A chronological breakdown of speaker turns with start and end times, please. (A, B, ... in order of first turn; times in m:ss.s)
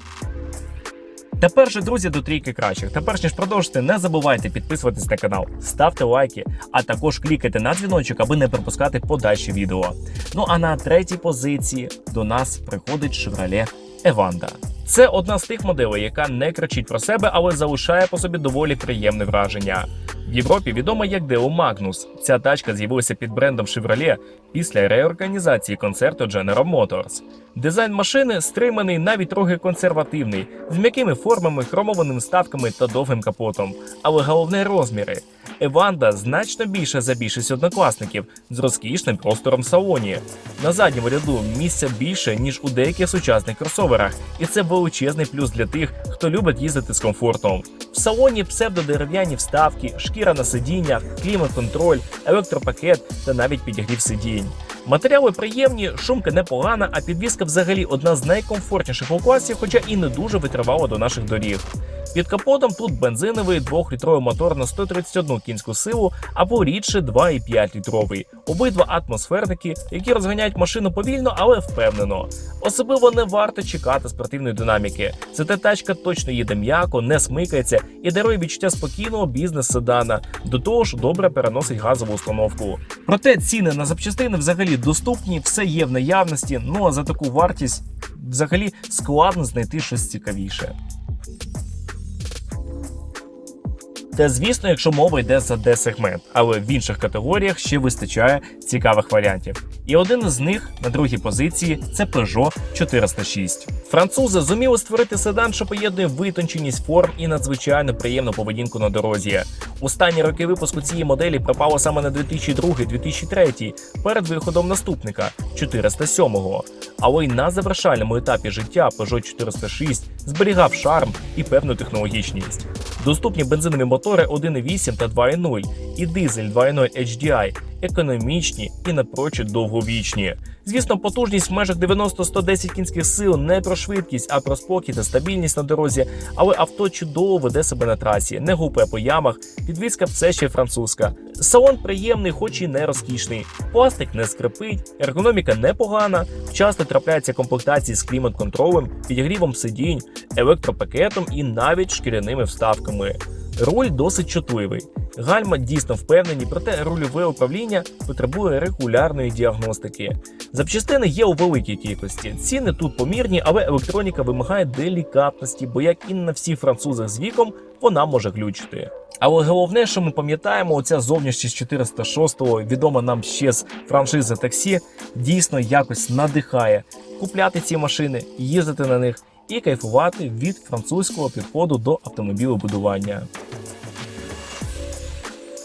0:01.4-1:30.7 A
1:34.1-3:03.3 A